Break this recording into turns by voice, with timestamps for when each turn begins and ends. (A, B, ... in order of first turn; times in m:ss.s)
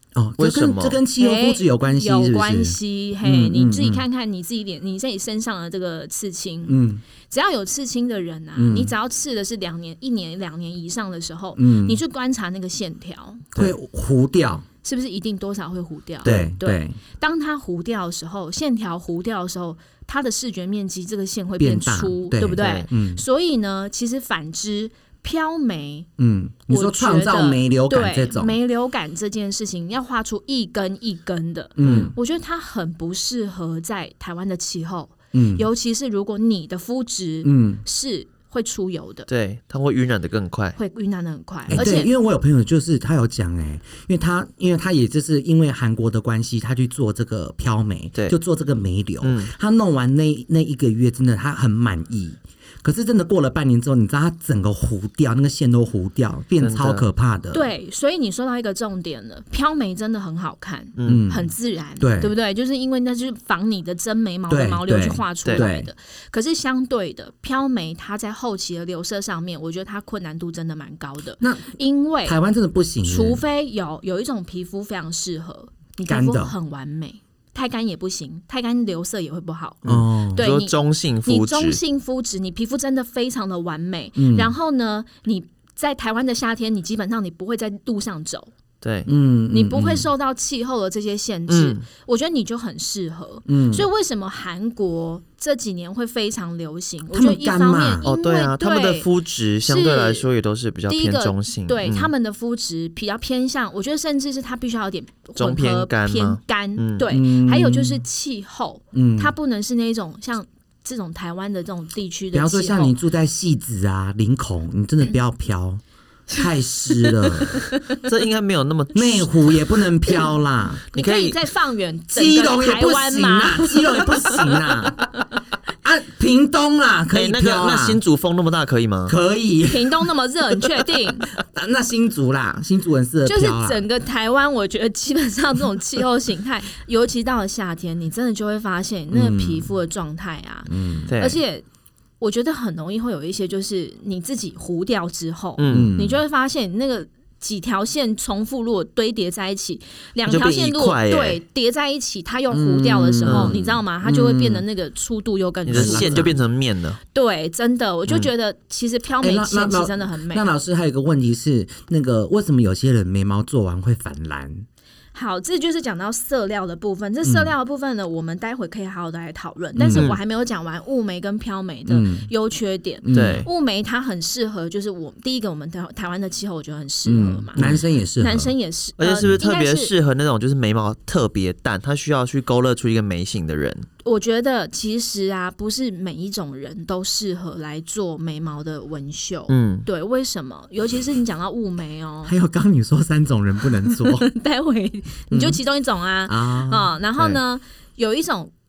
0:00.1-0:04.0 A
0:00.4-0:01.0 B
0:01.2-0:13.5 C
0:06.7-0:07.0 A
0:08.6-0:08.9 A
0:11.6-0:12.0 A
0:13.5-0:14.6 A
0:14.8-0:26.1 C
0:16.2-0:16.5 B
0:16.2-0:17.0 A
0:21.6-0:23.2 A
0:22.6-0:22.9 B
0:26.2-0:28.6 A
0:26.7-0:39.3 C
0:31.8-0:32.1 A
0:31.8-0:32.1 B
0:35.3-0:35.7 A
0:37.4-0:37.8 A
0:39.3-0:40.8 B
0:40.8-0:42.1 C
0:41.7-0:57.7 A
0:49.2-0:49.5 B
0:56.6-0:57.0 B
0:57.5-1:12.4 C
1:01.0-1:01.2 B
1:01.0-1:02.3 A
1:04.5-1:05.9 A
1:11.4-1:13.4 A
1:13.0-1:19.8 C
1:16.0-1:16.5 A
1:19.8-1:20.4 A
1:19.8-1:21.8 B
1:20.3-1:28.5 C
1:24.2-1:24.5 A
1:28.8-1:29.1 B
1:29.0-1:30.1 A
1:29.5-1:39.1 C
1:31.5-1:31.8 B
1:33.5-1:33.9 A
1:37.1-1:38.1 A
1:38.0-1:42.1 B
1:39.6-1:40.3 C
1:40.9-1:52.9 C
1:45.4-1:47.0 B
1:47.1-1:48.0 A
1:48.9-1:49.3 A
1:52.3-1:55.8 A
1:56.3-1:57.6 A
1:57.4-1:58.0 C
1:58.0-1:59.3 B
1:58.9-2:00.8 A
2:00.9-2:05.0 C
2:00.9-2:01.4 B
2:02.1-2:05.1 A
2:05.8-2:08.0 A
2:07.1-2:09.1 B
2:09.1-2:10.1 A
2:09.7-2:11.3 C
2:10.8-2:13.8 A
2:13.2-2:21.6 C
2:19.1-2:19.7 A
2:20.7-2:21.1 A
2:21.1-2:21.4 B
2:22.2-2:36.3 C
2:25.6-2:25.9 B
2:25.7-2:26.2 A
2:30.2-2:31.4 B
2:32.5-2:34.6 A
2:33.2-2:33.6 B
2:35.6-2:37.0 B
2:35.7-2:36.3 A
2:37.1-2:40.4 C
2:39.2-2:44.6 A
2:45.1-2:57.6 C
2:47.2-2:47.5 A
2:49.8-2:50.1 A
2:51.9-2:52.3 A
2:53.0-2:53.4 A
2:53.1-2:53.5 B
2:57.0-2:58.5 A
2:58.2-2:59.9 C
2:59.0-3:03.9 B
3:04.0-3:12.3 C
3:09.5-3:09.8 B
3:12.2-3:14.3 A
3:13.9-3:18.5 C
3:15.3-3:15.6 A
3:16.3-3:16.9 A